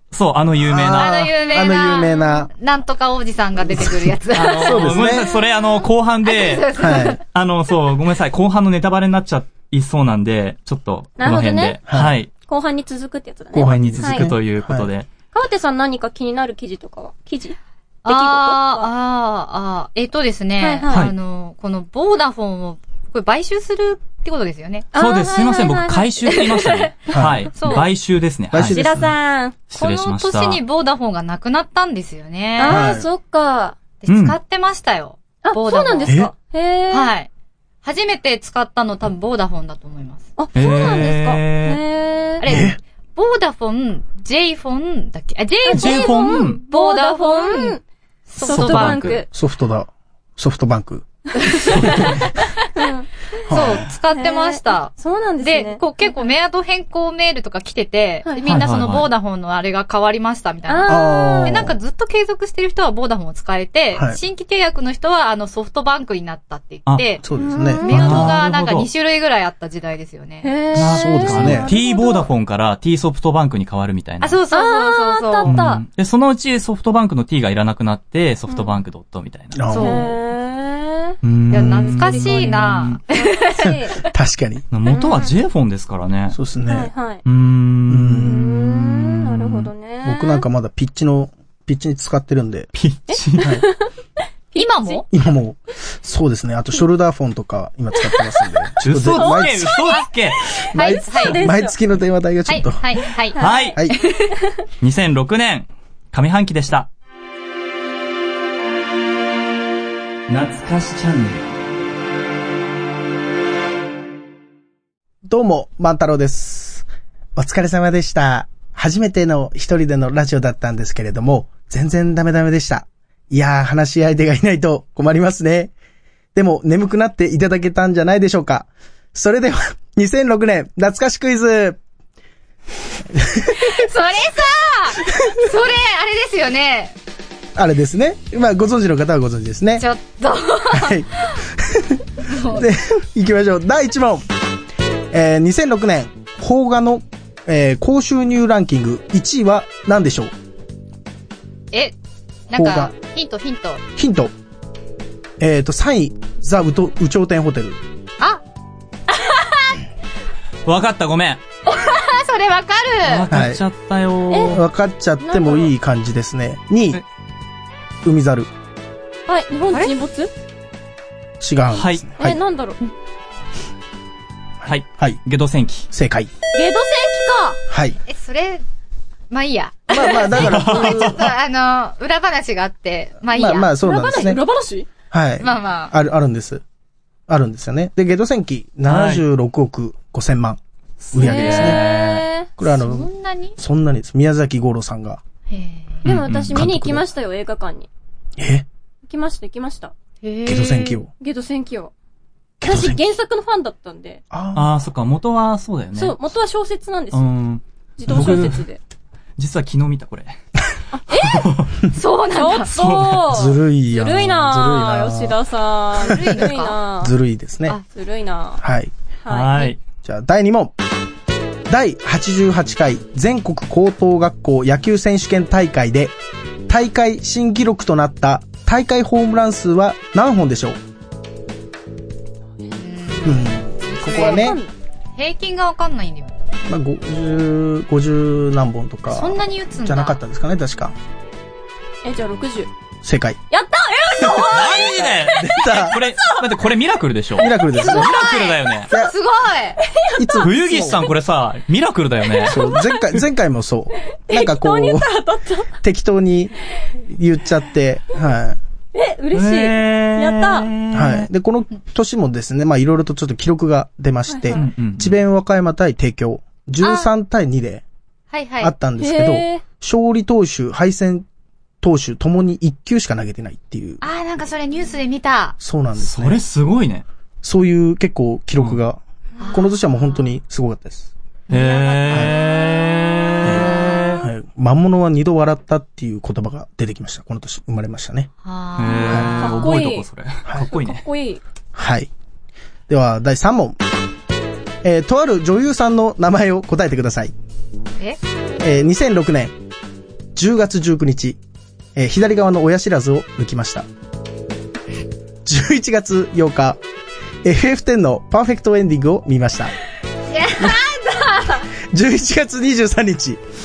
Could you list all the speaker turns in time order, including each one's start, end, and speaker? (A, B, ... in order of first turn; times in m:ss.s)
0:00.1-0:01.2 A
0:00.6-0:02.5 B
0:00.9-0:05.3 C
0:03.7-0:05.3 B
0:04.3-0:12.3 A
0:06.2-0:07.2 C
0:06.8-0:07.2 B
0:11.2-0:11.8 D
0:11.9-0:12.1 B
0:12.4-0:14.3 D
0:13.5-0:14.9 B
0:13.6-0:15.1 A
0:15.3-0:18.9 D
0:18.0-0:24.9 C
0:20.6-0:21.1 D
0:24.9-0:26.7 D
0:24.9-0:28.9 A
0:27.1-0:27.7 B
0:27.5-0:27.8 C
0:28.5-0:29.1 B
0:28.6-0:29.6 D
0:29.7-0:30.6 A
0:29.7-0:33.0 C
0:32.6-0:33.8 D
0:32.7-0:33.1 B
0:34.0-0:36.2 C
0:34.1-0:34.4 A
0:35.4-0:37.1 D
0:36.1-0:36.3 B
0:36.9-0:37.3 C
0:37.8-0:40.3 C
0:40.4-0:42.6 D
0:40.5-0:41.8 A
0:42.4-0:47.8 C
0:42.5-0:42.8 B
0:45.6-0:47.8 D
0:45.7-0:46.6 A
0:48.3-0:49.0 C
0:48.4-0:49.3 D
0:48.4-0:49.2 A
0:49.3-0:51.0 B
0:51.5-0:52.2 C
0:51.8-0:52.2 B
0:52.8-0:53.1 D
0:53.5-0:53.8 B
0:53.5-1:07.2 C
0:54.1-0:56.3 D
0:58.2-0:58.6 D
0:58.4-0:59.1 A
1:00.7-1:01.6 D
1:00.9-1:01.7 B
1:03.9-1:04.2 B
1:07.2-1:07.9 B
1:07.4-1:08.3 D
1:07.8-1:10.5 C
1:07.9-1:08.9 A
1:10.4-1:12.3 D
1:10.7-1:14.4 A
1:10.9-1:11.7 B
1:14.2-1:15.6 C
1:14.5-1:15.8 D
1:15.4-1:19.6 A
1:18.5-1:18.8 D
1:19.5-1:20.0 B
1:19.7-1:20.1 C
1:19.7-1:21.2 D
1:21.2-1:23.0 A
1:21.5-1:23.7 C
1:22.1-1:22.3 D
1:23.1-1:24.0 D
1:24.0-1:24.6 B
1:24.7-1:26.4 A
1:24.9-1:25.3 D
1:26.3-1:26.9 B
1:26.7-1:27.2 D
1:27.2-1:29.7 A
1:27.9-1:28.5 B
1:28.2-1:30.4 D
1:30.0-1:32.7 B
1:32.7-1:33.6 A
1:33.1-1:33.9 D
1:33.4-1:33.6 B
1:34.5-1:35.0 D
1:34.6-1:35.0 C
1:35.1-1:39.8 B
1:38.2-1:40.0 D
1:38.8-1:40.4 A
1:40.7-1:42.8 B
1:40.7-1:41.4 C
1:41.0-1:41.7 D
1:42.4-1:44.3 C
1:43.3-1:43.8 D
1:43.4-1:43.8 A
1:44.8-1:46.9 A
1:50.3-1:51.5 A
1:55.2-2:05.7 B
2:06.3-2:11.8 B
2:13.1-2:13.8 B
2:13.5-2:17.0 C
2:17.5-2:19.8 B
2:19.8-2:21.0 C
2:20.7-2:24.3 B
2:22.2-2:22.7 C
2:25.1-2:30.3 B
2:32.5-2:33.8 C
2:32.5-2:32.9 B
2:34.0-2:34.3 B
2:35.4-2:37.8 B
2:39.1-2:39.8 C
2:40.6-2:41.4 A
2:41.6-2:43.3 C
2:43.0-2:44.6 A
2:43.3-2:43.6 B
2:44.3-2:44.5 D
2:44.5-2:47.0 B
2:45.2-2:45.7 D
2:48.0-2:48.5 B
2:49.2-2:50.3 D
2:51.4-2:52.4 B
2:51.7-2:52.0 A
2:52.2-2:52.8 D
2:54.6-2:55.2 B
2:54.6-2:55.9 A
2:55.9-2:56.3 B
2:56.5-2:57.6 D
2:57.7-2:58.0 B
2:58.1-2:58.6 C
2:59.3-3:03.7 C
2:59.9-3:01.3 B
3:00.4-3:01.2 A
3:03.3-3:04.4 B
3:03.8-3:04.9 D
3:05.1-3:06.6 B
3:05.4-3:05.9 C
3:07.3-3:10.6 B
3:08.9-3:09.2 A
3:11.0-3:12.2 A
3:11.1-3:11.8 B
3:11.2-3:12.5 D
3:12.6-3:15.2 B
3:12.6-3:13.6 C
3:15.5-3:16.0 C
3:16.0-3:16.6 A
3:16.0-3:17.9 D
3:16.5-3:17.1 B
3:18.4-3:18.7 B
3:19.0-3:19.9 D
3:20.2-3:21.0 C
3:20.4-3:21.1 B
3:21.2-3:21.9 D
3:22.6-3:23.0 B
3:22.6-3:24.2 D
3:24.3-3:24.8 B
3:24.5-3:26.2 A
3:25.9-3:27.3 D
3:27.1-3:28.6 A
3:28.0-3:28.8 D
3:28.1-3:28.4 B
3:29.4-3:30.4 A
3:30.9-3:31.5 D
3:31.2-3:31.8 A
3:31.9-3:32.7 C
3:32.3-3:37.1 D
3:32.7-3:33.4 A
3:33.3-3:35.4 B
3:36.0-3:36.5 B
3:36.0-3:36.8 C
3:37.0-3:37.8 B
3:37.8-3:38.6 D
3:38.6-3:38.9 B
3:39.2-3:39.7 D
3:39.3-3:39.8 A
3:40.0-3:40.7 B
3:41.7-3:46.1 B
3:46.7-3:50.8 B
3:52.7-3:54.5 C
3:53.2-3:54.6 B
3:54.1-3:54.7 D
3:55.2-3:56.3 C
3:56.6-4:01.0 B
3:59.1-4:00.2 C
4:02.0-4:02.7 D
4:03.0-4:03.4 B
4:03.5-4:06.4 D
4:04.2-4:06.0 B
4:04.5-4:08.9 A
4:07.4-4:08.1 B
4:07.4-4:08.4 D
4:07.9-4:09.8 C
4:10.0-4:10.4 D
4:10.2-4:11.1 B
4:10.4-4:12.6 A
4:12.3-4:13.0 D
4:12.4-4:15.1 B
4:14.3-4:15.7 D
4:15.8-4:18.6 B
4:18.9-4:20.7 D
4:19.3-4:21.3 A
4:20.9-4:27.8 B
4:24.3-4:24.6 D
4:24.5-4:25.2 A
4:28.3-4:28.7 C
4:28.6-4:31.2 B
4:29.0-4:29.6 D
4:31.8-4:34.0 B
4:34.0-4:35.6 C
4:35.6-4:36.4 B
4:36.0-4:37.0 A
4:37.4-4:39.0 B
4:39.4-4:40.2 C
4:39.5-4:41.1 B
4:41.5-4:42.3 C
4:41.5-4:44.2 A
4:42.1-4:42.3 B
4:43.4-4:48.3 B
4:48.4-4:49.5 C
4:48.8-4:51.0 A
4:49.1-4:49.4 B
4:49.4-4:50.0 D
4:50.7-4:51.4 D
4:51.7-4:52.1 B
4:52.9-4:53.8 B
4:54.8-4:57.3 B
4:58.6-4:59.6 B
5:00.4-5:01.4 B
5:02.0-5:03.9 B
5:05.4-5:06.8 B
5:07.4-5:09.7 B
5:10.3-5:11.6 C
5:11.9-5:13.4 B